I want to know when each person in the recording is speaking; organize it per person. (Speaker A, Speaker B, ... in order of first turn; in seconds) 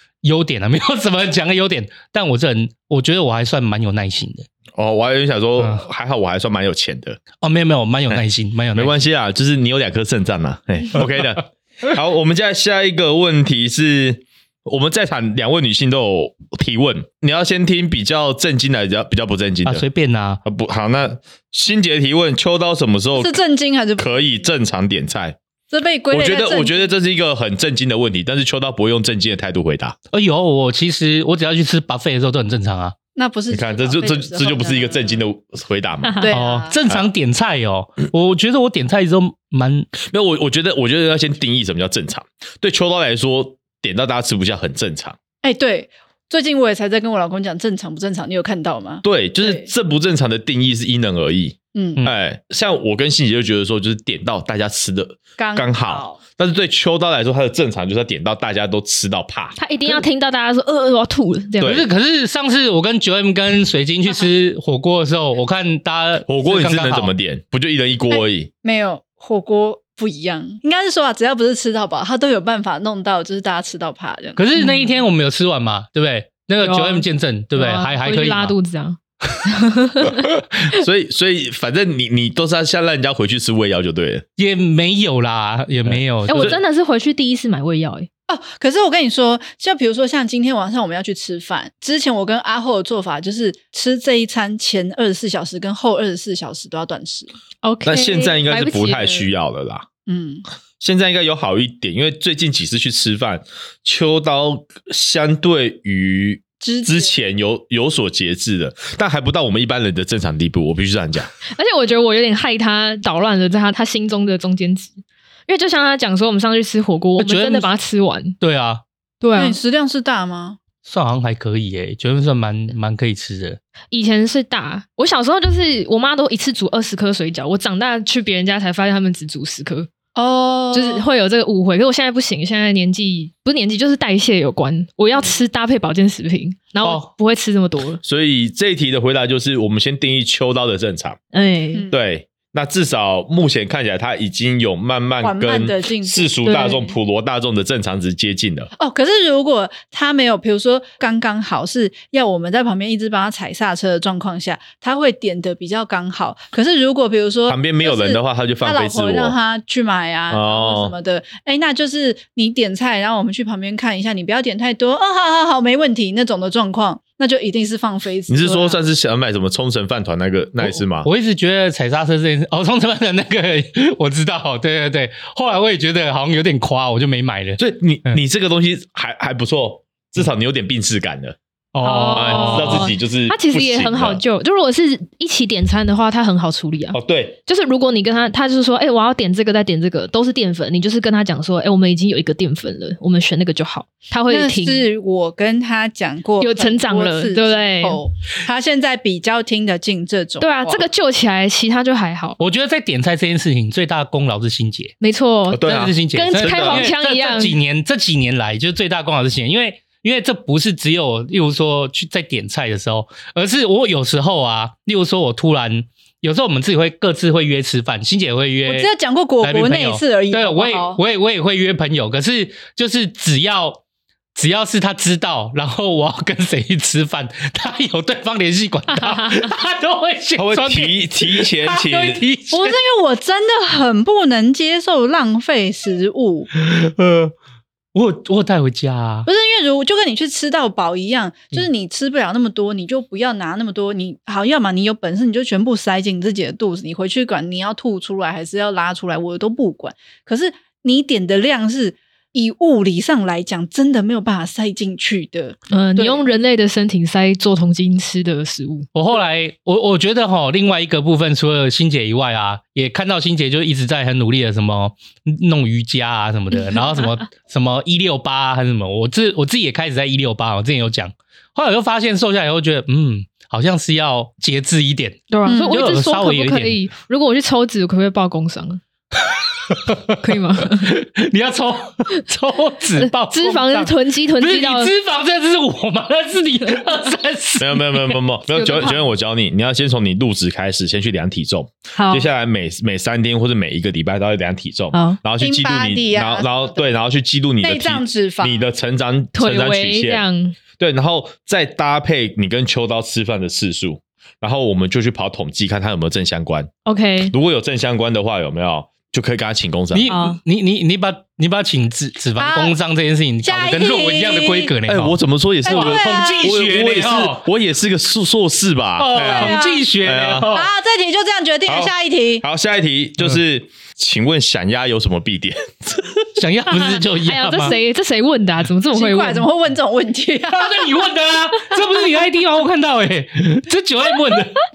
Speaker A: 0.2-4.5, 7.4-9.0, 19.6-20.4, 30.1-33.0, 36.3-39.9, 61.6-67.1, 74.4-78.5, 84.4-86.6, 117.2-117.7, 118.4-118.8, 120.8-123.6, 136.8-137.1, 170.6-178.2, 181.7-182.9, 202.4-204.9, 205.6-223.8, 224.3-232.8, 236.5-237.3, 237.9-239.3, 258.9-276.8, 279.5-288.0, 309.9-317.4, 319.0-320.7, 326.4-327.8, 330.5-334.6
Speaker B: 4.8-7.2, 8.7-19.8, 20.4-23.4, 24.0-25.4, 26.1-30.0, 33.5-36.3, 40.0-45.2, 49.0-59.6, 61.6-61.9, 66.3-68.5, 80.7-84.2, 85.9-86.6, 97.8-99.8, 100.8-111.3, 138.0-141.2, 141.9-148.7, 157.5-159.4, 160.3-160.9, 168.3-171.1, 177.6-181.4, 182.1-184.2, 186.9-187.4, 205.5-206.9, 230.4-232.2, 287.6-300.2, 300.8-306.7, 307.2-310.1, 314.9-320.5, 321.7-326.2
Speaker C: 23.2-24.5, 25.7-26.9, 33.1-35.2, 36.2-36.8, 45.4-49.7, 51.7-52.0, 55.4-56.2, 68.1-74.4, 88.3-97.3, 100.1-100.5, 106.6-107.1, 119.4-120.6, 130.2-131.1, 141.7-142.0, 145.2-146.6, 148.8-168.8, 194.3-200.8, 218.7-221.0, 232.5-236.5, 239.3-256.2, 275.5-275.8, 295.4-296.9, 297.6-298.6, 312.4-312.8, 313.4-314.7, 315.6-316.5, 319.2-319.9, 320.5-322.4, 328.9-330.9
Speaker D: 59.6-61.8, 74.6-74.8, 76.6-80.3, 86.3-88.1, 97.6-99.3, 111.5-115.0, 115.5-118.4, 119.2-119.6, 123.9-129.9, 130.7-138.0, 141.3-141.8, 146.4-146.9, 181.8-194.9, 196.4-198.0, 200.4-202.4, 205.0-207.6, 255.7-258.9, 266.8-267.0, 275.3-278.8, 280.2-280.9, 283.0-284.9, 288.5-289.0, 291.9-292.3, 294.9-295.2, 299.4-300.6, 306.9-307.4, 310.1-310.4, 326.7-329.5